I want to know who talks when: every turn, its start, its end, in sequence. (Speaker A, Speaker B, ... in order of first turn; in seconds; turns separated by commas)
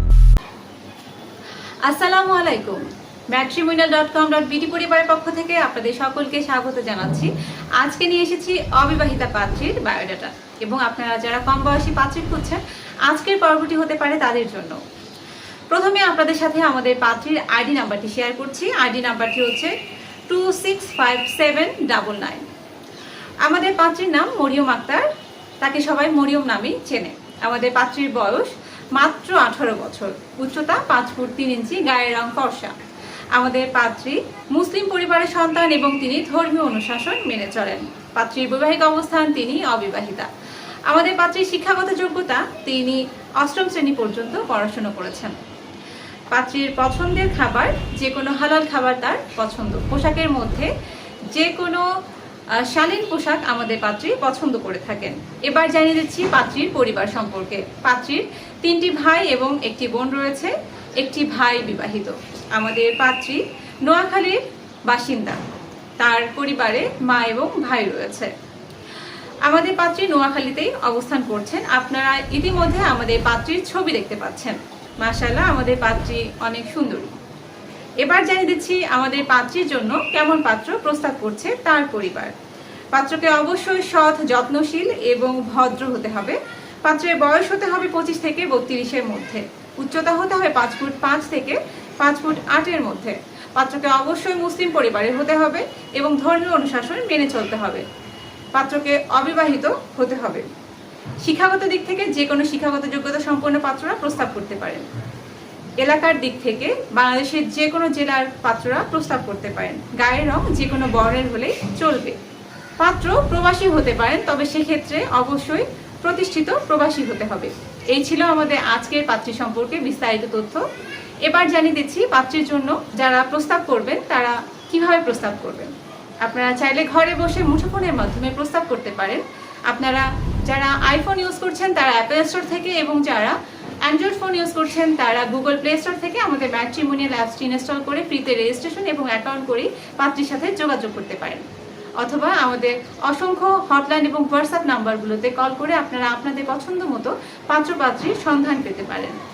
Speaker A: 1.8-14.8, Speaker A: 15.7-19.7, Speaker A: 20.3-22.5, Speaker A: 23.4-25.1, Speaker A: 25.6-32.7, Speaker A: 33.3-40.3, Speaker A: 40.9-45.4, Speaker A: 46.3-50.7, Speaker A: 51.3-51.9, Speaker A: 52.5-65.4, Speaker A: 66.0-68.3, Speaker A: 69.4-77.2, Speaker A: 78.0-82.3, Speaker A: 82.9-97.8, Speaker A: 98.5-100.5, Speaker A: 101.2-104.9, Speaker A: 105.8-112.2, Speaker A: 112.8-120.7, Speaker A: 121.2-141.5, Speaker A: 142.0-149.2